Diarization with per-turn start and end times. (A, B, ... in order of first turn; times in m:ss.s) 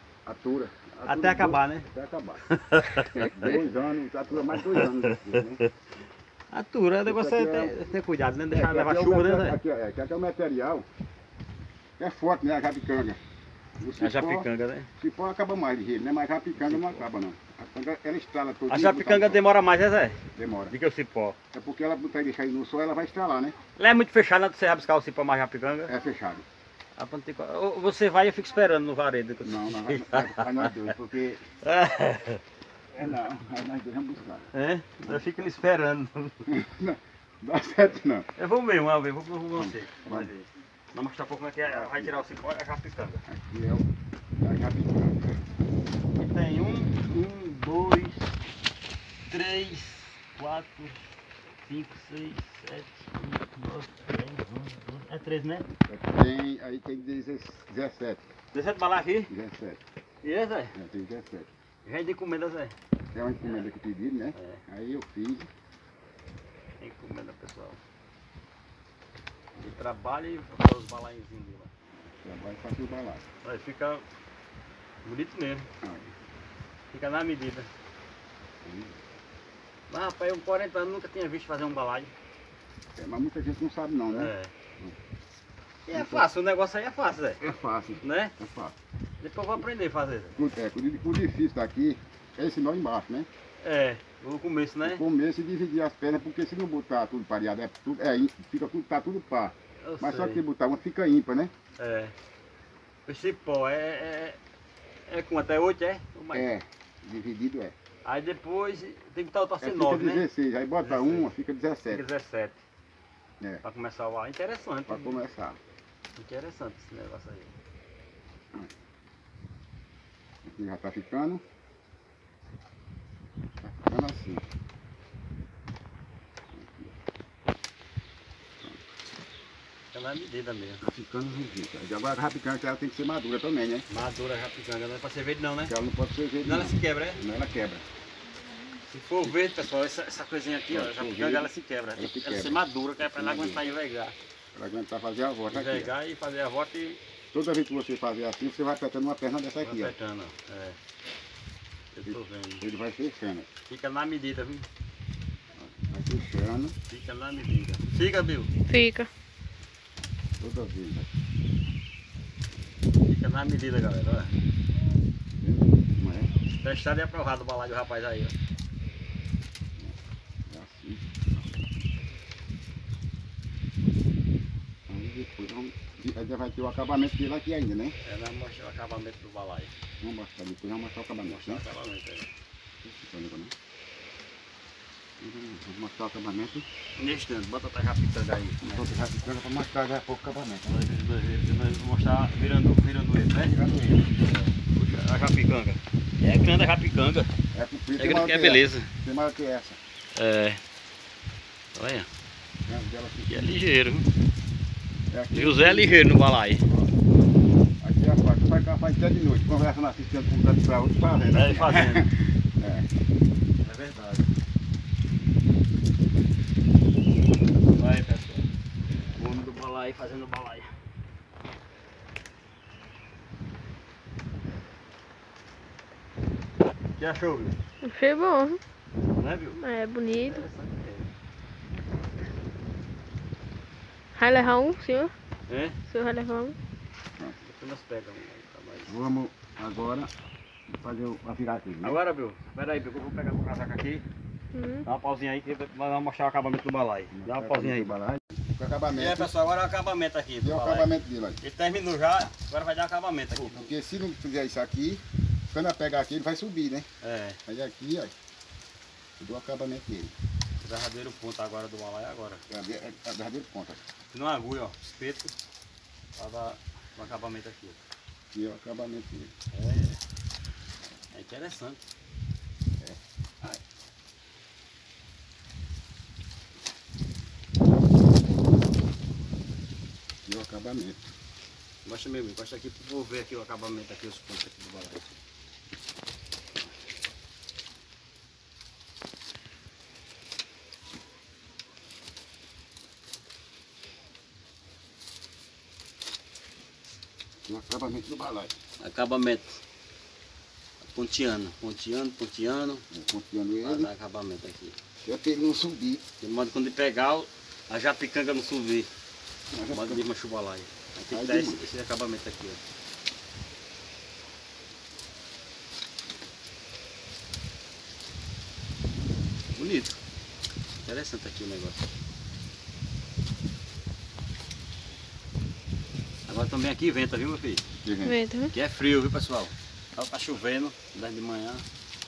0:00.2-0:02.4 A
0:01.0-0:01.9 B
0:02.5-0:03.6 B
0:03.0-0:05.6 A
0:04.5-0:05.7 B
0:06.5-0:09.6 B
0:07.0-0:07.9 A
0:08.5-0:10.8 A
0:12.0-0:13.2 A
0:13.8-0:14.5 A
0:14.0-0:14.9 B
0:15.0-0:19.4 A
0:16.5-0:17.0 B
0:18.7-0:21.4 B
0:20.3-0:20.7 A
0:21.5-0:23.6 A
0:23.8-0:25.9 B
0:25.9-0:26.4 A
0:27.0-0:30.7 B
0:29.4-0:31.4 A
0:31.6-0:32.4 B
0:32.9-0:34.5 A
0:34.5-0:36.5 B
0:35.0-0:35.3 A
0:36.4-0:38.3 A
0:38.4-0:43.2 B
0:39.5-0:40.3 A
0:41.6-0:42.2 A
0:43.3-0:43.8 A
0:44.4-0:45.4 A
0:46.2-0:48.3 B
0:49.3-0:55.7 B
0:55.9-0:58.2 A
0:58.5-0:59.3 B
0:59.3-0:59.8 A
1:00.2-1:00.7 B
1:00.7-1:01.5 A
1:01.8-1:02.7 B
1:03.1-1:05.5 A
1:04.3-1:04.6 B
1:06.8-1:07.8 B
1:09.6-1:11.7 B
1:12.0-1:13.2 A
1:13.4-1:14.0 B
1:15.0-1:15.7 B
1:15.8-1:16.1 A
1:16.9-1:17.7 B
1:18.6-1:19.0 A
1:19.9-1:22.1 B
1:23.0-1:25.0 A
1:24.1-1:24.5 B
1:25.8-1:27.4 B
1:25.9-1:26.3 A
1:27.4-1:28.7 A
1:28.0-1:28.3 B
1:29.2-1:30.4 B
1:30.4-1:33.3 A
1:33.6-1:35.0 B
1:34.8-1:41.5 A
1:39.8-1:40.4 B
1:41.8-1:42.1 B
1:43.0-1:44.4 B
1:45.1-1:46.5 B
1:46.3-1:47.7 A
1:48.0-1:50.3 B
1:49.6-1:52.0 A
1:50.8-1:51.3 B
1:51.9-1:52.6 B
1:53.6-1:55.2 B
1:54.9-1:55.6 A
1:56.2-1:57.5 B
2:00.4-2:01.4 A
2:03.6-2:04.4 A
2:06.5-2:06.9 A
2:09.9-2:10.8 B
2:10.8-2:13.9 A
2:13.9-2:15.8 B
2:15.6-2:17.8 A
2:16.4-2:17.2 B
2:18.8-2:24.1 B
2:20.7-2:23.6 A
2:24.5-2:25.9 A
2:25.5-2:27.0 B
2:27.3-2:29.9 A
2:29.6-2:30.8 B
2:31.9-2:32.6 B
2:32.0-2:33.5 A
2:33.7-2:34.7 B
2:35.6-2:36.7 A
2:36.9-2:38.5 B
2:38.7-2:39.1 C
2:40.4-2:41.1 A
2:43.1-2:44.4 B
2:45.4-2:46.3 A
2:46.5-2:48.3 B
2:50.5-2:51.1 A
2:54.9-2:58.0 A
2:58.0-2:59.7 B
3:00.0-3:01.6 A
3:01.2-3:02.3 B
3:02.8-3:03.5 A
3:05.2-3:06.7 A
3:07.0-3:08.9 B
3:08.6-3:10.7 A
3:10.6-3:17.3 B
3:13.5-3:14.1 A
3:17.5-3:19.8 A
3:18.0-3:18.9 B
3:20.1-3:20.6 B
3:21.7-3:22.1 B
3:22.6-3:23.6 A
3:23.3-3:24.1 B
3:25.1-3:26.0 A
3:25.3-3:26.6 B
3:27.8-3:32.9 A
3:31.3-3:32.1 B
3:33.6-3:34.3 B
3:37.7-3:38.5 B
3:39.2-3:40.7 B
3:47.0-3:47.6 B
3:47.8-3:48.6 C
3:49.2-3:51.1 B
3:49.6-3:50.4 C
3:51.7-3:52.1 A
3:54.1-3:55.1 C
3:55.5-3:55.8 B
3:55.9-3:56.6 C
3:57.4-3:58.9 B
3:58.9-4:00.1 A
4:00.7-4:02.0 A
4:01.8-4:04.0 B
4:04.5-4:04.8 C
4:04.8-4:08.0 B
4:07.1-4:09.3 A
4:08.9-4:13.7 B
4:10.4-4:11.4 A
4:13.4-4:16.9 A
4:17.0-4:17.4 B
4:17.4-4:18.1 A
4:19.2-4:20.1 A
4:20.6-4:22.4 B
4:22.5-4:23.8 A
4:24.1-4:25.3 B
4:26.2-4:27.8 B
4:28.3-4:29.3 A
4:29.5-4:30.0 B
4:31.1-4:31.8 B
4:32.8-4:33.5 A
4:40.2-4:41.0 A
4:41.8-4:45.1 B
4:57.4-4:58.5 A
4:58.8-4:59.6 B
5:00.8-5:02.8 B
5:02.9-5:03.9 A
5:03.6-5:04.8 B
5:05.0-5:06.0 A
5:06.2-5:08.9 B
5:09.5-5:10.0 A
5:09.7-5:12.6 B
5:11.1-5:11.6 A
5:19.6-5:20.0 B
5:20.8-5:21.8 B
5:26.3-5:27.6 B
5:27.8-5:28.2 A
5:28.0-5:28.5 C
5:28.5-5:31.6 B